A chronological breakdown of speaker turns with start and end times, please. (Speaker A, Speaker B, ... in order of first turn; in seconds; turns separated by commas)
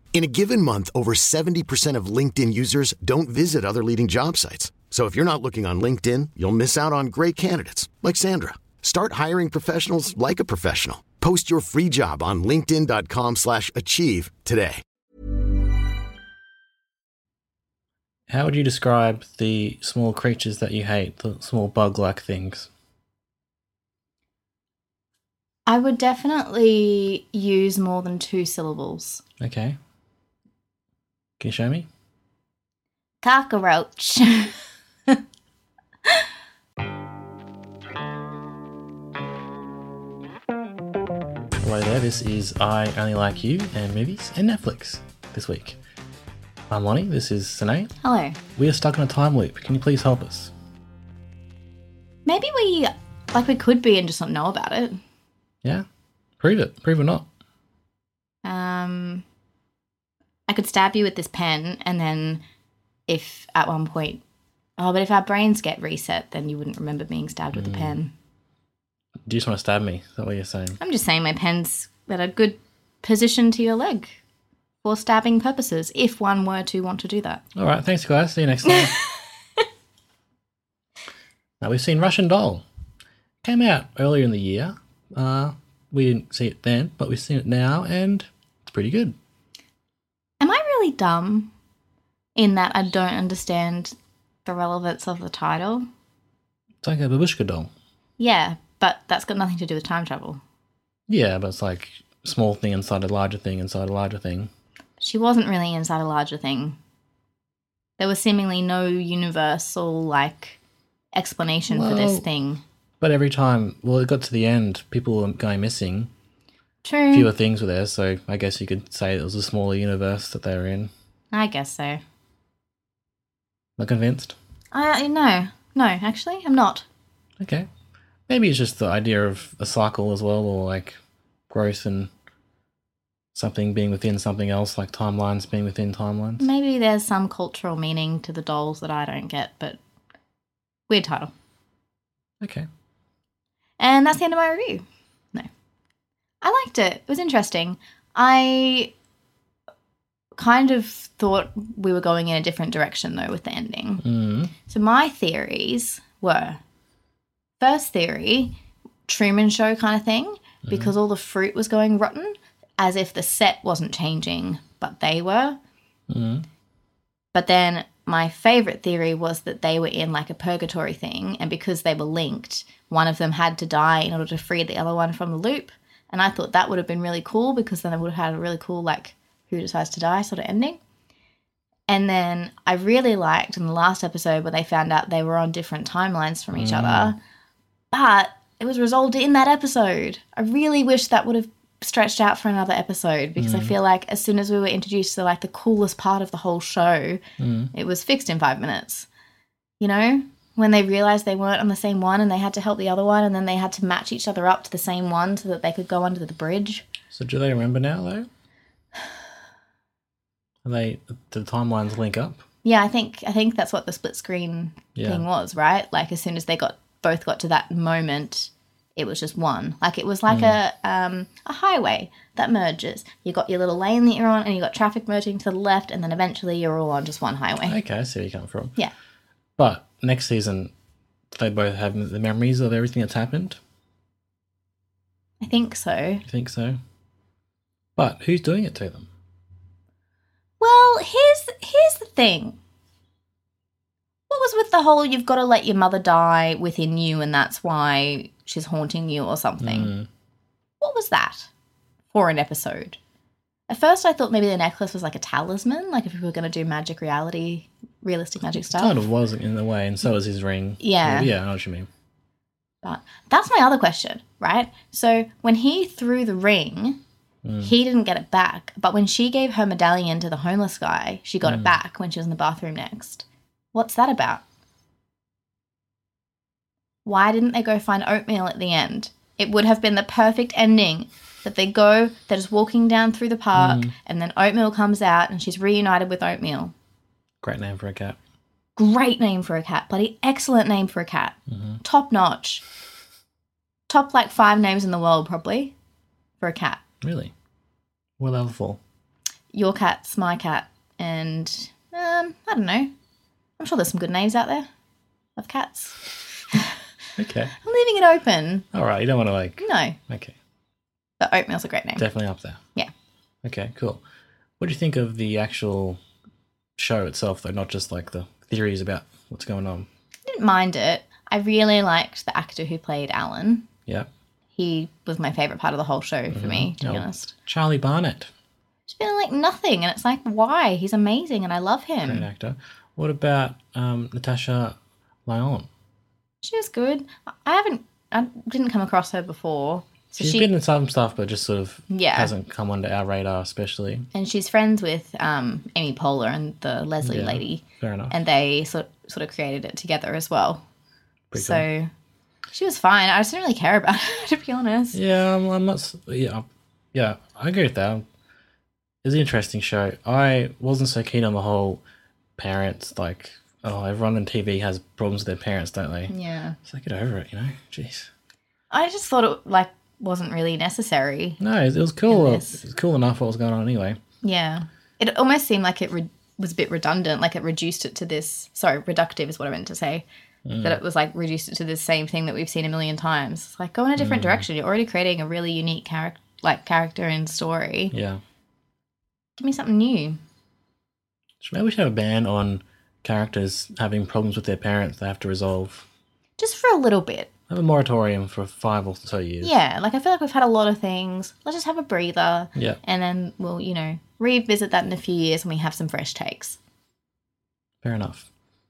Speaker A: 0.1-14.8, Speaker B: 18.3-22.7, Speaker C: 25.7-29.2, Speaker B: 29.4-29.8, Speaker B: 31.4-31.9, Speaker C: 33.2-34.5, Speaker B: 41.6-45.8, Speaker B: 46.7-47.9, Speaker C: 48.0-48.4, Speaker B: 48.6-50.5, Speaker C: 52.2-55.0, Speaker B: 56.4-57.3, Speaker C: 58.4-59.2, Speaker C: 60.5-62.4, Speaker C: 63.1-64.2, Speaker C: 64.8-68.1, Speaker B: 67.5-68.0, Speaker B: 69.3-70.8, Speaker C: 70.8-74.2, Speaker C: 74.8-77.4, Speaker B: 77.6-79.0, Speaker B: 81.6-82.7, Speaker B: 83.4-89.2, Speaker C: 90.4-91.5, Speaker C: 92.4-95.8, Speaker B: 96.8-97.7, Speaker C: 98.2-100.4, Speaker B: 101.1-104.5, Speaker C: 105.0-106.8, Speaker C: 108.0-110.6, Speaker C: 111.1-112.6, Speaker B: 111.7-112.3, Speaker B: 113.0-116.1, Speaker C: 116.8-117.3, Speaker B: 117.1-120.9, Speaker C: 121.3-122.0, Speaker B: 123.8-124.4, Speaker C: 124.7-126.9, Speaker B: 127.4-127.7, Speaker B: 128.3-131.0, Speaker B: 131.5-132.1, Speaker B: 133.3-136.5, Speaker C: 136.4-139.8, Speaker C: 140.9-141.3, Speaker B: 142.4-142.7, Speaker C: 143.8-144.8, Speaker C: 146.4-148.9, Speaker C: 150.3-154.0, Speaker B: 154.0-154.5, Speaker C: 154.7-156.6, Speaker C: 157.6-165.6, Speaker B: 160.7-160.9, Speaker B: 166.1-166.5, Speaker C: 167.3-180.8, Speaker C: 181.9-187.2, Speaker B: 186.5-187.2, Speaker C: 187.9-197.2, Speaker B: 193.4-193.8, Speaker B: 197.4-197.7, Speaker C: 197.7-199.1, Speaker C: 199.8-206.9, Speaker B: 207.1-208.3, Speaker B: 210.7-212.4, Speaker C: 212.6-227.8, Speaker B: 215.0-215.2, Speaker B: 220.3-220.6, Speaker B: 227.6-228.7, Speaker B: 229.6-230.7, Speaker B: 231.3-233.6, Speaker C: 235.4-236.2, Speaker B: 236.3-236.8, Speaker B: 238.0-239.1, Speaker C: 240.6-242.6, Speaker C: 244.3-249.9, Speaker B: 249.6-250.1, Speaker C: 250.8-251.5, Speaker C: 252.1-253.0, Speaker C: 253.7-259.0, Speaker B: 258.5-261.9, Speaker C: 260.8-261.3, Speaker C: 262.8-267.0, Speaker B: 267.4-267.8, Speaker C: 267.6-274.4, Speaker B: 271.4-271.8, Speaker C: 277.1-286.7, Speaker B: 283.6-283.9, Speaker B: 287.4-288.2, Speaker C: 288.8-292.6, Speaker B: 291.5-291.8, Speaker C: 293.9-295.7, Speaker C: 296.4-296.8, Speaker B: 297.0-297.3, Speaker B: 298.2-298.8, Speaker C: 299.5-302.9, Speaker C: 303.6-304.7, Speaker C: 305.4-306.7, Speaker B: 307.2-307.5, Speaker C: 307.6-308.7, Speaker B: 308.7-310.4, Speaker C: 309.6-310.0, Speaker C: 311.2-312.1, Speaker B: 312.0-312.6, Speaker B: 313.4-314.0, Speaker B: 314.6-316.0, Speaker B: 316.8-319.9, Speaker C: 320.3-323.7, Speaker C: 324.5-327.3, Speaker B: 326.3-328.3, Speaker C: 328.9-332.3, Speaker B: 332.0-334.8, Speaker B: 335.3-335.7, Speaker C: 336.4-340.5, Speaker B: 340.2-344.1, Speaker C: 341.9-342.3, Speaker C: 344.1-350.6, Speaker B: 347.0-348.1, Speaker B: 351.3-351.7, Speaker C: 351.3-351.9, Speaker C: 352.5-355.0, Speaker B: 354.9-358.1, Speaker B: 359.0-361.8, Speaker B: 362.4-368.1, Speaker C: 366.1-366.6, Speaker C: 368.7-371.4, Speaker B: 371.4-374.0, Speaker C: 372.1-372.6, Speaker C: 374.2-380.1, Speaker B: 380.4-380.8, Speaker C: 380.6-387.9, Speaker B: 384.0-384.5, Speaker B: 387.9-388.2, Speaker C: 389.4-390.2, Speaker B: 391.4-395.9, Speaker C: 396.4-397.3, Speaker B: 397.5-399.6, Speaker C: 399.4-406.6, Speaker B: 407.8-408.3